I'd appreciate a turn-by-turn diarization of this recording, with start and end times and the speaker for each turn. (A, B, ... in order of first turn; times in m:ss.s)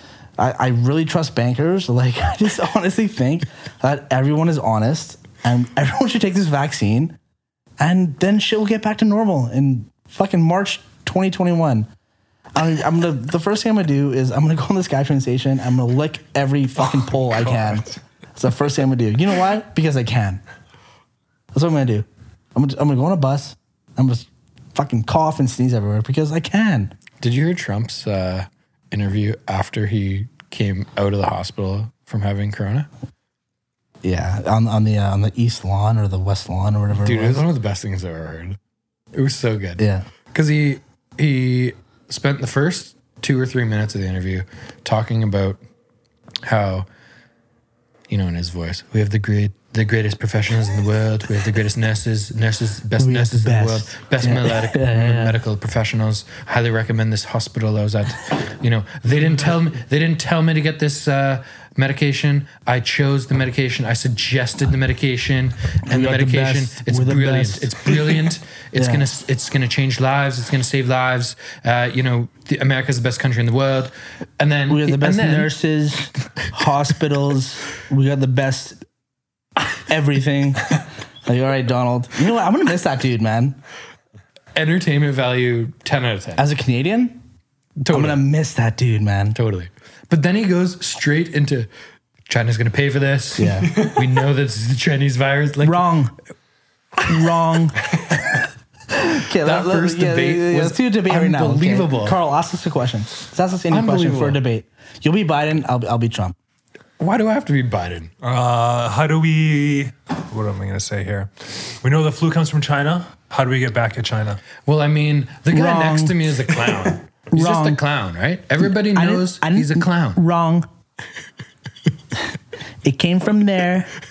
0:00.4-0:07.2 A
0:07.8-0:11.9 A
0:12.5-0:20.4 A
0:21.5-0:26.9 A
0:27.2-0:32.9 B
0:34.0-0:37.5 A
0:36.9-0:38.6 B
0:39.1-0:45.6 B
0:39.8-0:40.1 A
0:46.4-0:46.9 B
0:48.1-1:15.5 B
0:53.0-0:55.4 A
1:05.8-1:08.2 A
1:08.7-1:09.1 A
1:14.7-1:18.8 A
1:19.7-1:23.6 A
1:24.5-1:26.4 B
1:26.4-1:27.2 A
1:27.8-1:28.2 B
1:27.9-1:29.4 A
1:29.3-1:31.7 B
1:32.3-1:35.9 B
1:33.4-1:33.8 A
1:35.6-1:36.1 A
1:37.0-1:38.4 A
1:38.9-1:46.3 A
1:39.4-1:42.2 B
1:43.7-1:44.4 B
1:47.0-1:48.1 B
1:48.2-1:54.4 C
1:54.6-2:00.2 B
1:55.5-1:56.4 A
1:57.3-1:57.8 A
1:58.6-2:00.7 A
2:02.8-2:03.9 A